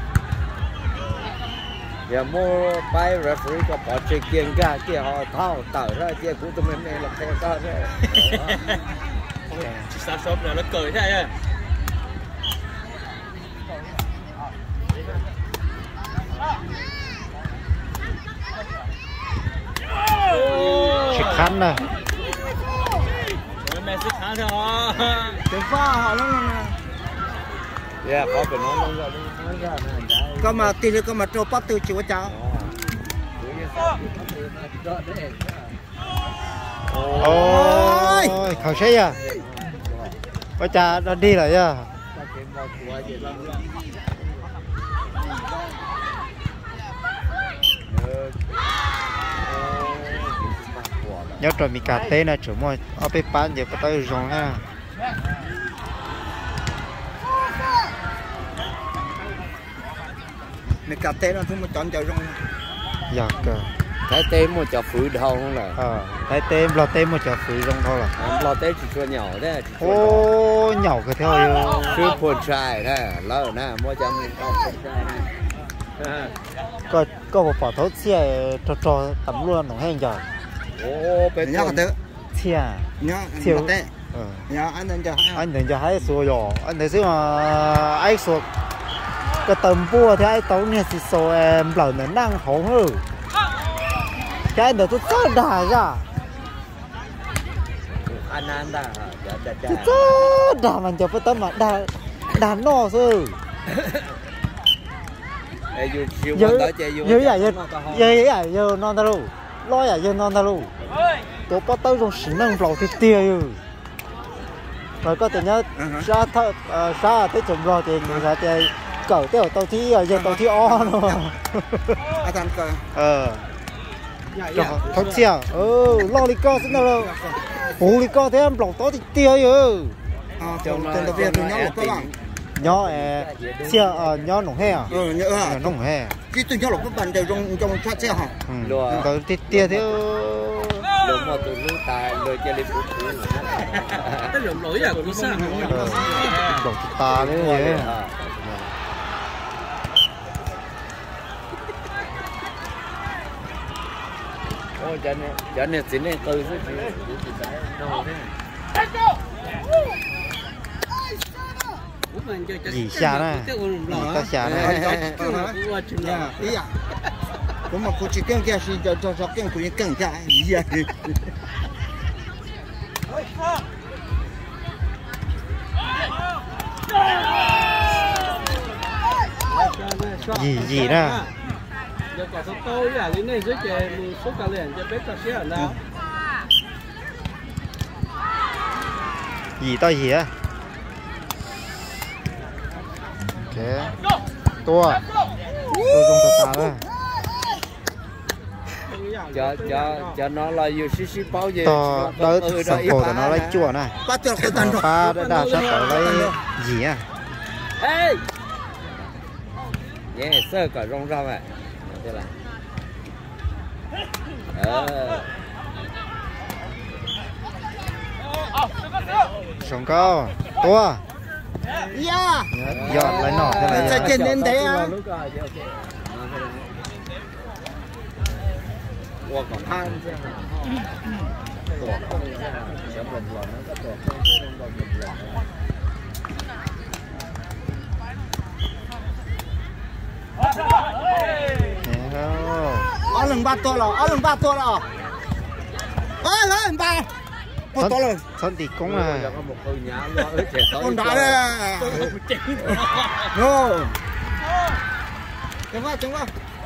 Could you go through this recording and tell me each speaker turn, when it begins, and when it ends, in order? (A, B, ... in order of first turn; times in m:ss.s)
0:02.1-0:08.6 A
0:09.5-0:11.3 B
0:09.6-0:09.9 C
0:20.3-0:21.5 B
0:21.1-0:21.8 C
0:23.6-0:25.4 B
0:25.4-0:26.8 D
0:28.0-0:30.8 A
0:30.4-0:32.4 D
0:32.2-0:32.8 A
0:33.4-0:35.8 A
0:36.8-0:40.2 A
0:37.2-0:39.2 C
0:37.2-0:38.4 D
0:40.6-0:41.9 C
0:42.1-0:43.7 A
0:47.9-0:48.5 A
0:49.4-0:51.5 A
0:51.4-0:54.6 C
1:00.8-1:02.4 D
1:03.1-1:03.7 C
1:04.1-1:05.8 A
1:05.8-1:08.2 C
1:08.2-1:10.3 A
1:09.8-1:12.1 C
1:11.9-1:15.3 A
1:16.0-1:16.3 A
1:16.9-1:20.2 C
1:20.8-1:21.8 A
1:21.4-1:22.0 D
1:22.3-1:24.5 C
1:23.0-1:23.9 D
1:24.5-1:25.4 D
1:25.4-1:28.5 C
1:29.4-1:33.0 C
1:34.5-1:36.1 C
1:37.9-1:40.1 A
1:39.7-1:43.4 C
1:45.7-1:48.2 A
1:46.3-1:50.7 C
1:51.5-1:53.6 C
1:55.0-2:02.0 C
1:55.8-1:56.1 D
2:00.1-2:01.2 D
2:02.2-2:02.9 D
2:03.0-2:03.5 C
2:04.3-2:05.2 B
2:04.5-2:07.1 C
2:06.5-2:07.4 D
2:07.8-2:10.0 C
2:10.4-2:12.1 D
2:10.6-2:15.0 A
2:12.6-2:16.2 C
2:14.9-2:15.7 D
2:16.3-2:18.4 D
2:17.9-2:20.0 A
2:18.5-2:20.9 C
2:21.0-2:24.4 A
2:24.3-2:26.7 B
2:25.4-2:26.2 D
2:25.6-2:28.0 C
2:27.0-2:28.8 A
2:34.8-2:38.3 A
2:42.1-2:43.8 B
2:42.6-2:44.8 C
2:43.9-2:46.8 D
2:44.4-2:45.2 A
2:45.4-2:46.2 B
2:47.7-2:51.2 D
2:59.5-3:01.0 B
3:00.2-3:01.3 C
3:02.1-3:05.5 B
3:09.6-3:10.3 C
3:13.4-3:14.0 C
3:14.6-3:15.1 C
3:15.8-3:16.9 C
3:18.9-3:20.1 B
3:19.3-3:23.7 A
3:21.6-3:27.1 C
3:24.0-3:24.9 D
3:25.8-3:26.4 D
3:27.8-3:28.2 A
3:30.1-3:32.4 A
3:34.5-3:35.3 A
3:39.6-3:41.0 C
3:41.9-3:42.6 D
3:42.5-3:44.2 C
3:42.7-3:46.7 A
3:43.7-3:45.0 D
3:49.2-3:50.8 A
3:51.7-3:55.5 A
4:01.8-4:02.9 C
4:03.1-4:04.9 D
4:06.2-4:07.1 D
4:07.7-4:08.2 D
4:07.8-4:09.4 C
4:08.8-4:11.4 A
4:10.8-4:12.2 D
4:11.8-4:13.3 B
4:13.3-4:14.0 D
4:15.7-4:16.3 D